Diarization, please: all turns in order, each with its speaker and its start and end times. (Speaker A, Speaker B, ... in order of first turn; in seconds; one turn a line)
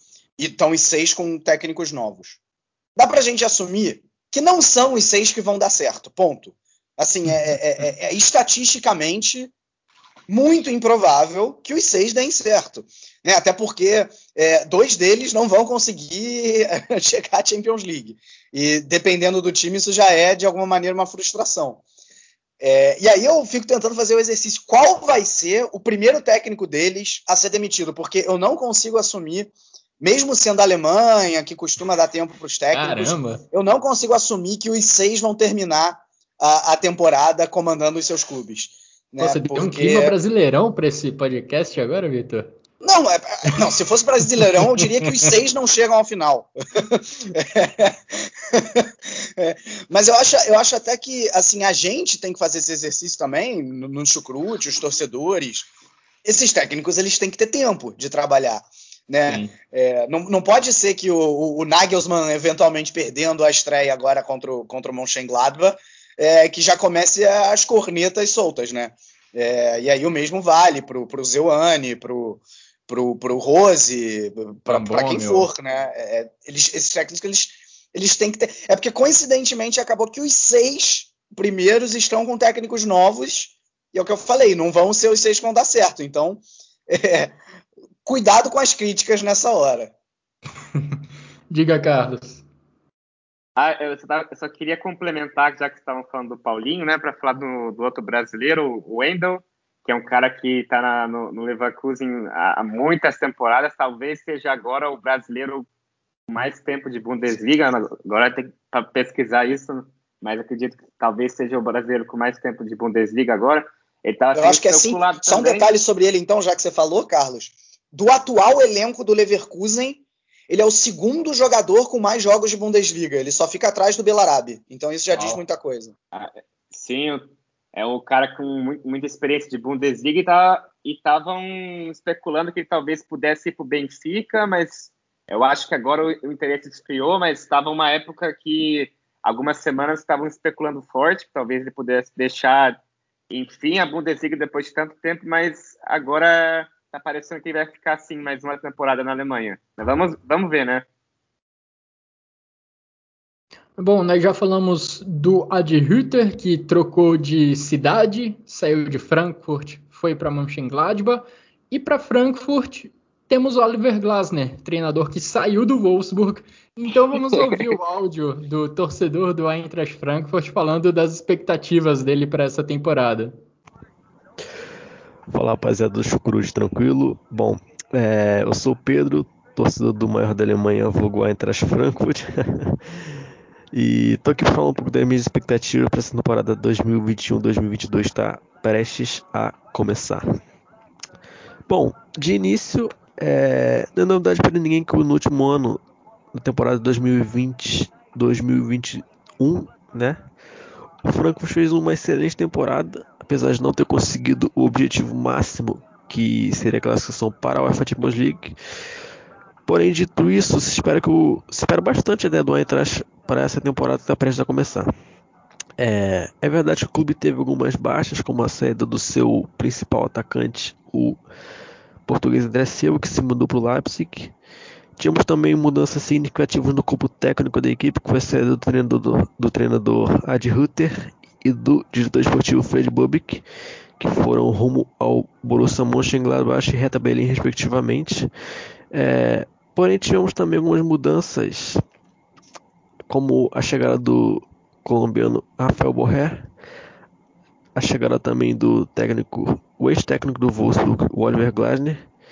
Speaker A: 0.4-2.4
Speaker A: 3.0-9.5
Speaker A: 10.3-21.8
Speaker A: 22.6-40.1
Speaker B: 32.7-33.4
Speaker B: 39.2-42.5
Speaker A: 42.8-55.7
Speaker A: 56.2-87.4
Speaker B: 59.3-59.5
Speaker B: 74.7-75.5
Speaker A: 88.0-89.9
Speaker B: 91.5-92.5
Speaker C: 93.6-105.7
Speaker C: 106.3-115.7
Speaker A: 114.3-125.9
Speaker C: 126.1-142.8
Speaker C: 143.3-150.8
Speaker B: 153.8-173.3
Speaker D: 175.3-182.8
Speaker D: 183.7-190.2
Speaker D: 191.7-195.8
Speaker D: 196.3-200.3
Speaker D: 201.0-208.6
Speaker D: 209.7-214.9
Speaker D: 215.8-221.2
Speaker D: 222.1-224.3
Speaker D: 225.0-233.4
Speaker D: 234.0-238.3
Speaker D: 238.9-241.8
Speaker D: 243.1-246.5
Speaker D: 247.8-252.1